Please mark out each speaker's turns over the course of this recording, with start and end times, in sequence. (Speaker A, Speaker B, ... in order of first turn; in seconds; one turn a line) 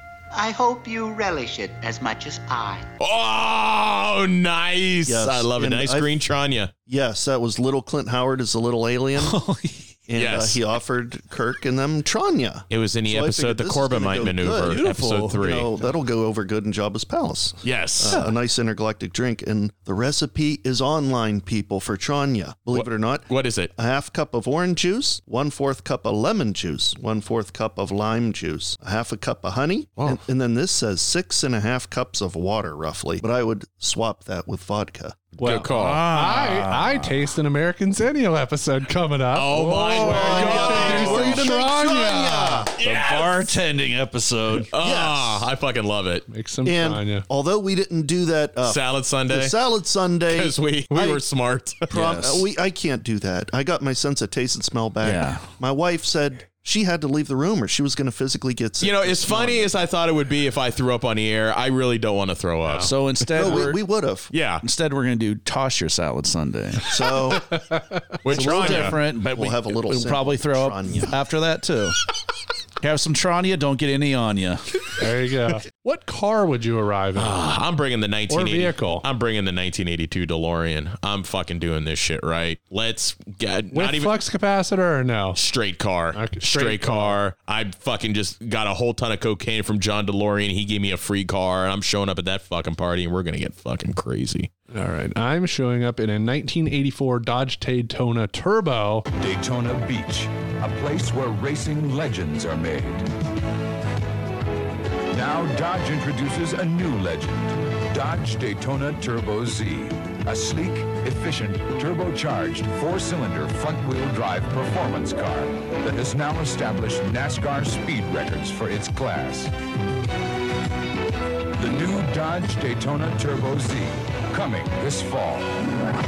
Speaker A: 0.3-2.9
Speaker B: 3.0-6.7
Speaker C: 5.0-6.1
Speaker C: 6.9-9.3
Speaker D: 9.2-9.9
Speaker C: 10.1-35.2
Speaker B: 10.1-10.6
Speaker B: 12.7-15.7
Speaker D: 14.7-15.4
Speaker B: 17.6-18.2
Speaker B: 22.7-23.7
Speaker B: 35.4-36.0
Speaker E: 35.4-42.7
Speaker D: 35.6-37.1
Speaker B: 39.3-41.4
Speaker C: 40.0-42.7
Speaker D: 40.2-41.2
Speaker B: 42.8-43.5
Speaker D: 42.8-44.7
Speaker B: 44.7-46.2
Speaker C: 44.8-45.4
Speaker E: 46.3-47.2
Speaker C: 46.6-51.2
Speaker B: 48.6-49.5
Speaker B: 50.3-51.9
Speaker C: 51.9-59.7
Speaker D: 51.9-52.5
Speaker D: 55.0-55.5
Speaker B: 58.8-63.6
Speaker D: 62.7-63.8
Speaker C: 63.3-64.3
Speaker B: 64.3-64.6
Speaker D: 64.6-66.9
Speaker C: 66.9-67.4
Speaker E: 67.5-67.8
Speaker B: 68.2-69.0
Speaker D: 68.3-72.0
Speaker C: 68.4-71.2
Speaker D: 72.8-74.6
Speaker E: 75.0-77.4
Speaker B: 77.2-84.1
Speaker E: 78.3-79.0
Speaker E: 83.7-85.4
Speaker B: 85.3-94.5
Speaker E: 86.1-87.2
Speaker E: 94.7-99.0
Speaker F: 99.2-103.1
Speaker F: 105.1-119.5
Speaker F: 121.6-125.7